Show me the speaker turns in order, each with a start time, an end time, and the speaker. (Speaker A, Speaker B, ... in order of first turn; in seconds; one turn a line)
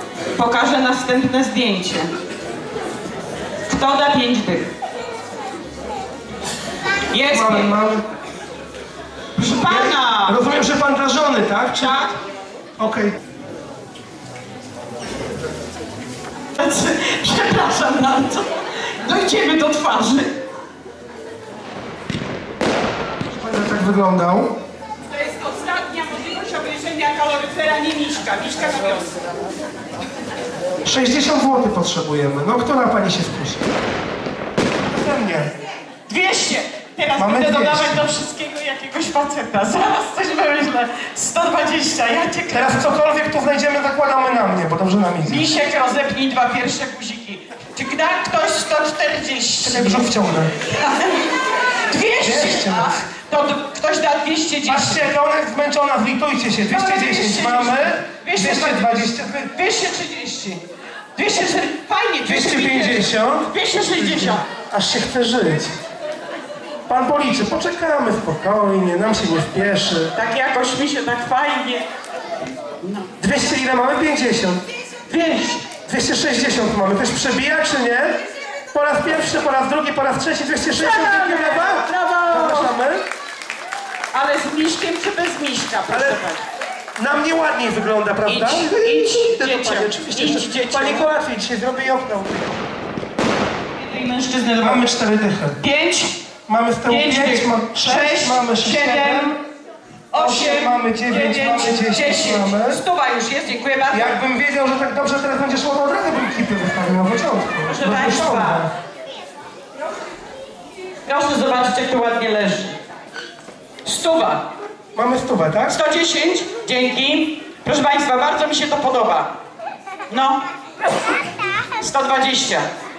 Speaker A: 0.3-2.1
Speaker A: 3.6-4.7
Speaker A: 7.1-7.7
Speaker B: 7.3-8.1
Speaker A: 9.3-10.4
Speaker B: 9.7-12.0
Speaker A: 11.8-12.2
Speaker B: 12.8-13.1
Speaker A: 16.6-20.4
Speaker B: 23.2-24.6
Speaker A: 25.1-29.2
Speaker B: 30.8-33.6
Speaker B: 34.8-35.5
Speaker A: 36.1-42.8
Speaker B: 37.2-38.0
Speaker B: 42.5-45.5
Speaker A: 45.2-51.3
Speaker B: 49.6-50.5
Speaker A: 51.9-55.1
Speaker B: 52.2-52.9
Speaker B: 54.6-59.5
Speaker A: 56.7-60.6
Speaker A: 61.1-64.5
Speaker B: 62.2-65.7
Speaker B: 66.9-70.1
Speaker A: 70.1-71.8
Speaker A: 72.8-73.1
Speaker B: 73.2-74.6
Speaker A: 75.0-75.7
Speaker B: 75.8-78.2
Speaker B: 78.7-83.0
Speaker A: 80.8-82.7
Speaker A: 84.1-86.4
Speaker B: 85.9-86.2
Speaker B: 87.0-92.6
Speaker A: 88.2-91.1
Speaker A: 93.8-94.8
Speaker B: 94.6-95.6
Speaker A: 95.6-96.2
Speaker B: 96.5-99.4
Speaker A: 96.8-99.3
Speaker A: 100.1-104.2
Speaker B: 100.1-102.8
Speaker B: 103.9-108.7
Speaker A: 107.7-108.7
Speaker A: 111.0-112.8
Speaker A: 113.8-114.5
Speaker B: 114.9-115.8
Speaker A: 115.7-119.3
Speaker A: 120.1-120.4
Speaker A: 121.8-122.7